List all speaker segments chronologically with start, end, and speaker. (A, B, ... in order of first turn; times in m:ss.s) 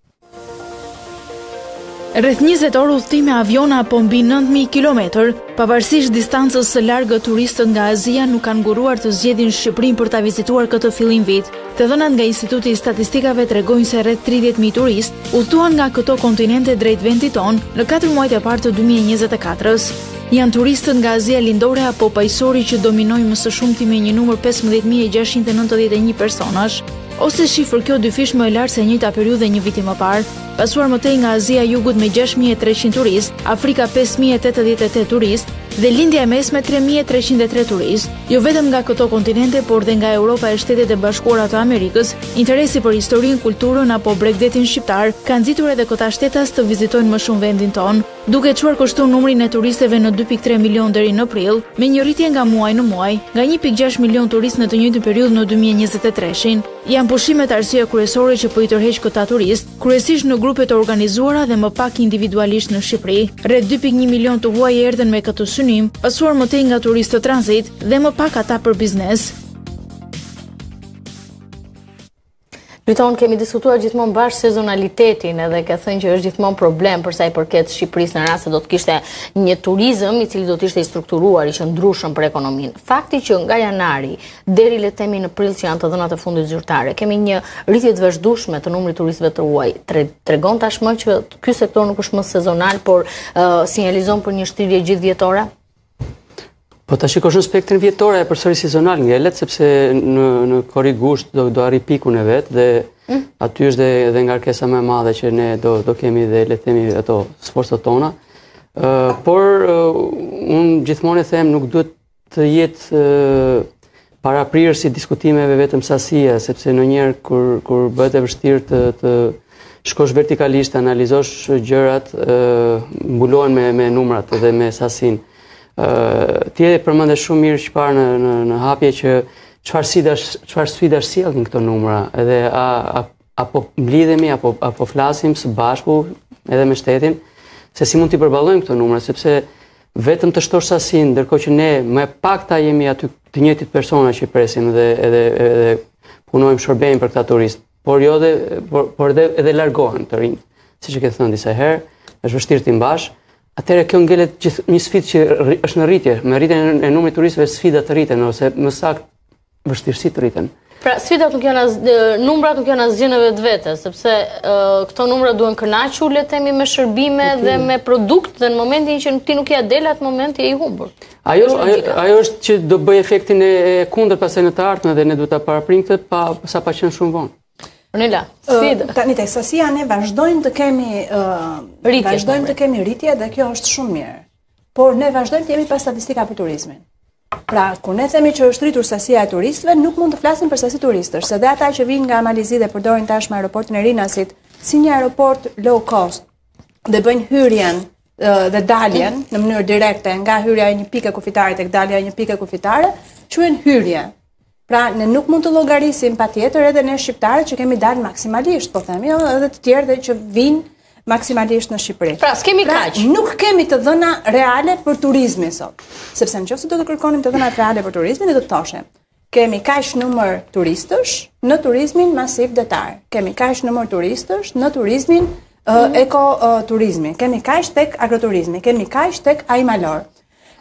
0:02.1-1:09.3 A
1:12.9-1:35.5 B
1:36.9-1:48.2 C
1:48.8-1:53.7 C
1:54.2-2:05.2 C
2:05.8-2:17.2 C
2:17.8-2:39.1 C
2:39.6-2:40.5 C
2:40.8-2:52.0 B
2:47.2-2:47.7 C
2:51.2-2:57.3 C
2:57.9-2:58.9 B
2:58.5-3:04.2 D
3:01.8-3:02.5 B
3:04.8-3:06.8 D
3:07.5-3:16.2 D
3:16.9-3:24.1 D
3:24.7-3:50.1 D
3:32.2-3:33.1 B